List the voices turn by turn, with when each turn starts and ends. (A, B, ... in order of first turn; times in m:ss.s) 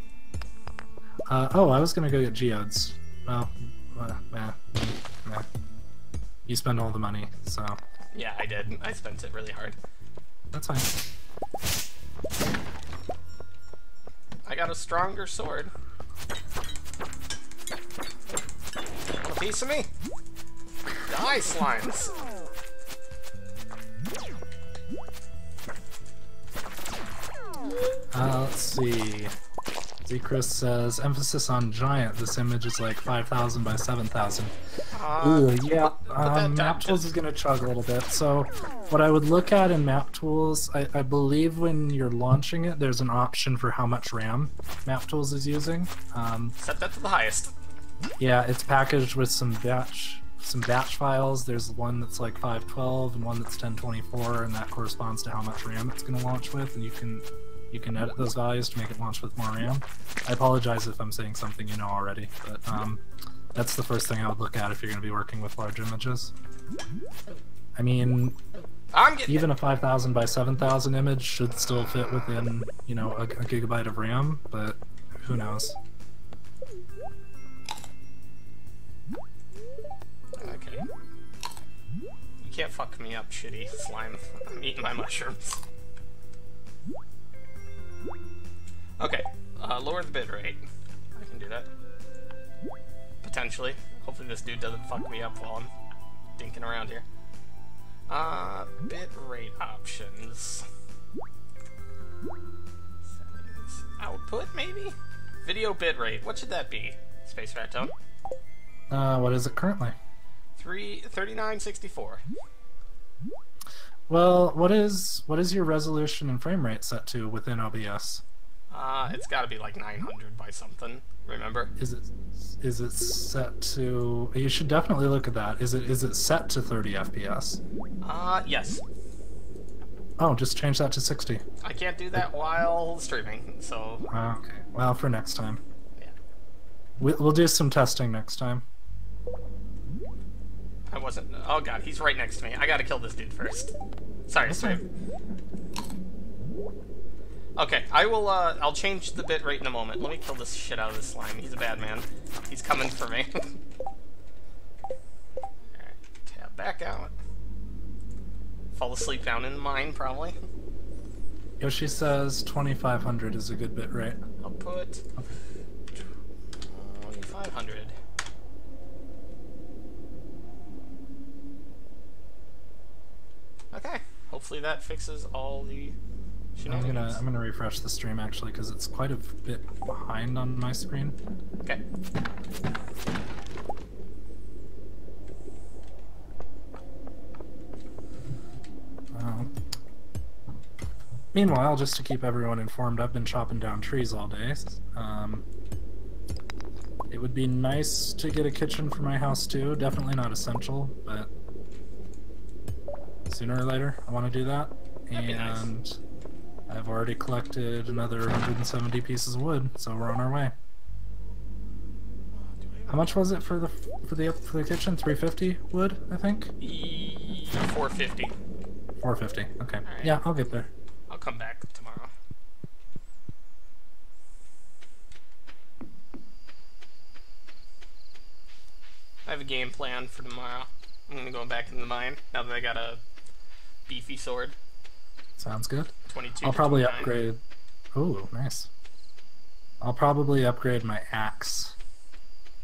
0:01.3-0:05.5 A
0:06.4-0:07.8 A
0:08.1-0:09.8 B
0:10.5-0:10.9 A
0:14.4-0:15.7 B
0:19.2-0:19.9 B
0:21.0-0:22.1 B
0:28.1-0:29.3 A
0:30.0-0:34.5 A
0:34.9-0:37.1 B
0:35.2-0:46.5 A
0:46.6-0:47.6 B
0:48.2-1:06.3 A
1:07.8-1:08.4 A
1:08.9-1:09.5 B
1:09.3-1:15.8 A
1:20.4-1:20.9 B
1:22.4-1:25.6 B
1:29.0-1:30.6 B
1:31.2-1:31.7 B
1:33.2-1:35.7 B
1:36.4-1:37.0 B
1:38.1-1:40.6 B
1:43.1-1:47.9 B
1:48.9-1:50.0 A
1:50.6-1:52.2 B
1:54.1-1:58.2 A
1:58.7-2:01.7 B
2:01.8-2:07.6 A
2:08.0-2:08.8 B
2:10.2-2:11.4 A
2:11.6-2:14.1 B
2:14.1-2:15.6 A
2:17.0-2:18.6 A
2:20.9-2:23.7 B
2:24.3-2:24.8 B
2:24.4-2:24.8 A
2:27.6-2:33.6 B
2:35.7-2:37.1 B
2:38.7-2:40.4 B
2:41.6-2:44.2 A
2:44.4-2:45.0 B
2:46.6-2:47.9 B
2:53.7-2:56.0 B
2:56.6-2:57.2 B
2:56.6-3:01.2 A
3:09.1-3:09.5 A
3:11.3-3:15.4 A
3:17.1-3:21.3 A
3:23.3-3:25.9 A
3:25.1-3:25.7 B
3:26.7-3:30.5 A
3:32.3-3:33.4 B
3:32.9-3:36.5 A
3:36.6-3:38.3 B
3:39.0-3:40.7 A
3:39.8-3:40.2 B
3:41.1-3:42.1 B
3:49.2-3:53.0 B
3:53.9-3:54.5 B
3:55.4-3:55.9 A
3:56.1-3:57.2 B
3:56.4-3:57.4 A
3:57.9-3:58.7 A
3:59.8-4:01.7 A